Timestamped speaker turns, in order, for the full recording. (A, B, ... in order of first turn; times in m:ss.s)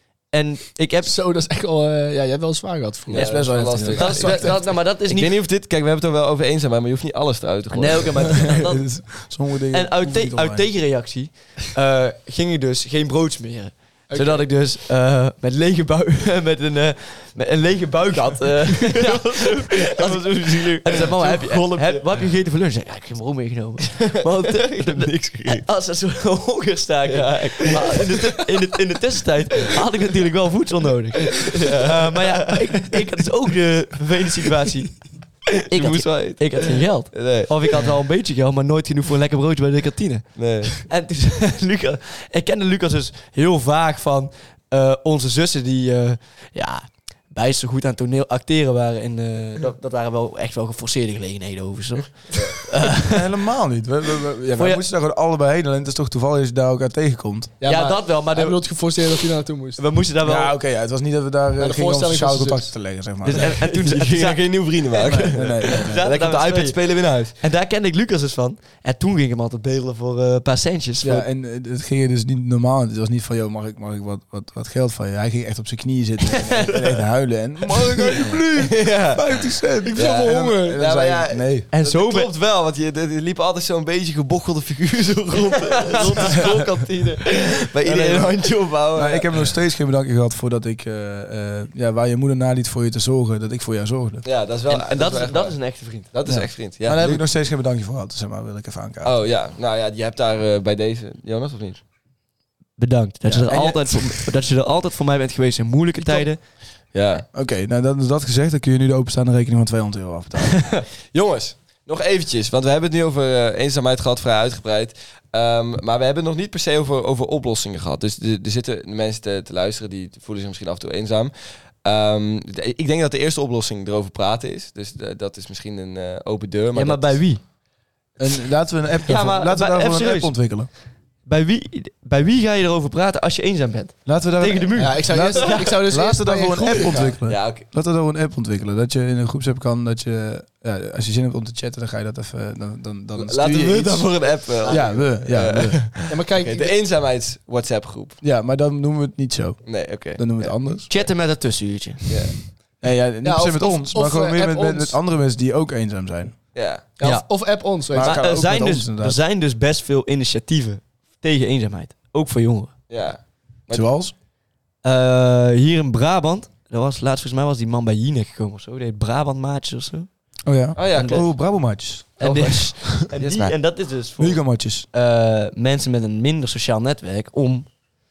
0:00.3-0:01.2 A
0:01.0-0:04.6 B
0:03.1-0:08.5 C
0:03.1-0:04.6 D
0:03.4-0:05.4 A
0:07.7-0:53.2 A
0:08.2-0:10.7 D
0:14.1-0:14.5 B
0:19.8-0:22.3 C
0:23.9-0:25.6 C
0:27.1-0:28.4 C
0:31.3-0:33.0 C
0:35.7-0:37.8 C
0:40.4-0:40.9 C
0:53.0-0:57.5 D
0:57.6-0:59.9 B
0:57.6-0:59.2 A
0:59.8-1:00.6 A
1:00.2-1:03.5 D
1:01.6-1:02.8 B
1:03.2-1:11.2 A
1:03.3-1:07.4 C
1:05.1-1:06.1 D
1:11.0-1:21.7 D
1:16.3-1:16.9 A
1:18.6-1:19.3 C
1:19.8-1:20.8 B
1:19.9-1:29.3 C
1:21.7-1:22.3 A
1:25.6-1:27.2 A
1:26.2-1:26.6 D
1:27.8-1:28.4 D
1:28.9-1:34.2 D
1:34.2-1:37.2 C
1:34.7-1:36.1 A
1:36.3-1:39.2 D
1:39.0-1:41.8 C
1:42.8-1:46.4 A
1:43.2-1:43.8 D
1:46.9-1:47.3 C
1:47.3-1:50.8 D
1:50.5-1:50.8 A
1:51.1-2:01.3 C
2:01.8-2:07.2 C
2:06.8-2:07.4 A
2:08.2-2:10.7 D
2:09.0-2:10.4 A
2:11.3-2:15.8 A
2:14.0-2:25.9 D
2:14.8-2:17.2 B
2:17.2-2:17.7 C
2:23.2-2:28.2 C
2:24.6-2:25.0 B
2:26.1-2:26.8 B
2:28.2-2:30.9 D
2:29.6-2:30.6 C
2:30.9-2:32.3 A
2:32.1-2:32.4 C
2:32.8-2:36.4 D
2:33.2-2:35.0 B
2:36.5-2:36.9 C
2:37.0-2:38.3 B
2:37.0-2:42.8 A
2:37.9-2:39.2 D
2:42.9-2:43.9 C
2:43.7-2:44.1 D
2:44.8-2:50.1 A
2:50.5-2:53.5 D
2:50.8-2:51.4 C
2:50.9-2:51.4 A
2:52.2-2:57.7 A
2:52.2-2:53.5 C
2:54.2-2:54.9 D